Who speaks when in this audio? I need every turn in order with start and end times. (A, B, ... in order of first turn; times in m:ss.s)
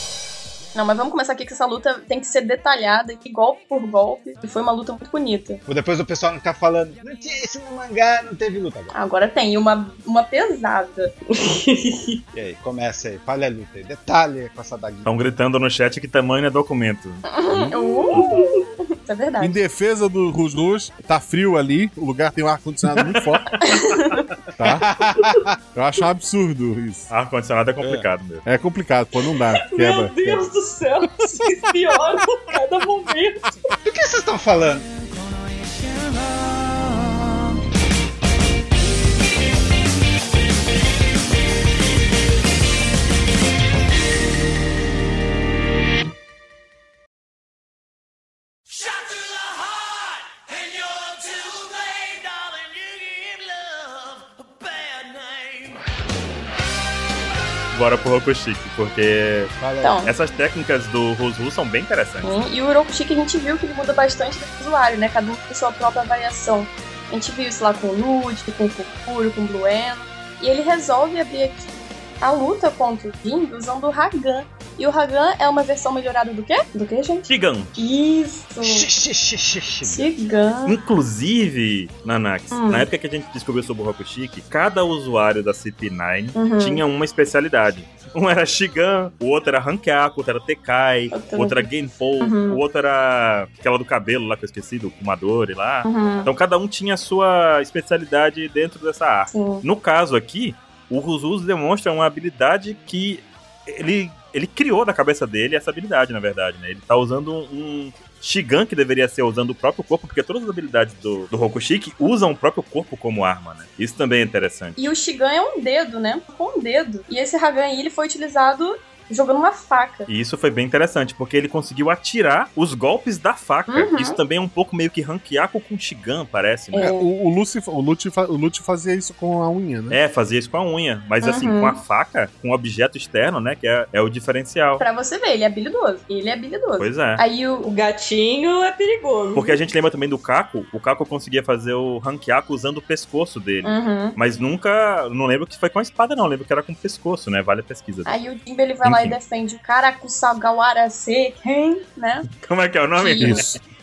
0:00.7-0:05.6 A
0:05.7-0:08.9 B
0:08.9-0:11.1 A
0:11.3-0:12.2 C
0:12.3-0:15.1 B
0:15.0-0:17.2 D
0:17.3-0:19.6 A
0:17.9-0:18.6 C
0:19.4-0:23.5 E
0:23.0-0:23.9 D
0:23.6-0:24.2 A
0:24.6-0:24.9 E
0:24.7-0:25.5 B
0:25.7-0:27.1 E
0:27.1-0:28.4 D
0:27.8-0:28.0 B
0:28.4-0:30.5 E
0:29.6-0:33.6 C
0:33.8-0:34.9 B
0:57.7-1:02.3 D
0:59.6-1:00.0 B
0:59.8-1:00.1 A
1:02.2-1:18.9 A
1:17.3-1:17.7 D
1:18.6-1:20.1 B
1:19.8-1:20.8 A
1:20.6-1:54.8 D
1:22.5-1:22.9 A
1:26.3-1:26.8 A
1:31.1-1:31.7 A
1:32.2-1:32.6 A
1:35.8-1:36.3 A
1:39.3-1:39.6 A
1:54.8-2:00.1 A
2:00.1-2:06.9 D
2:03.7-2:04.2 A
2:06.7-2:07.1 A
2:06.8-2:10.0 E
2:09.9-2:14.8 D
2:11.2-2:11.8 A
2:14.8-2:17.7 A
2:16.8-2:17.2 D
2:17.6-2:19.6 C
2:19.3-2:28.2 D
2:23.6-2:24.2 A
2:28.0-2:32.3 A
2:28.8-2:29.2 D
2:32.4-2:33.5 D
2:33.0-2:33.4 A
2:33.2-2:33.6 E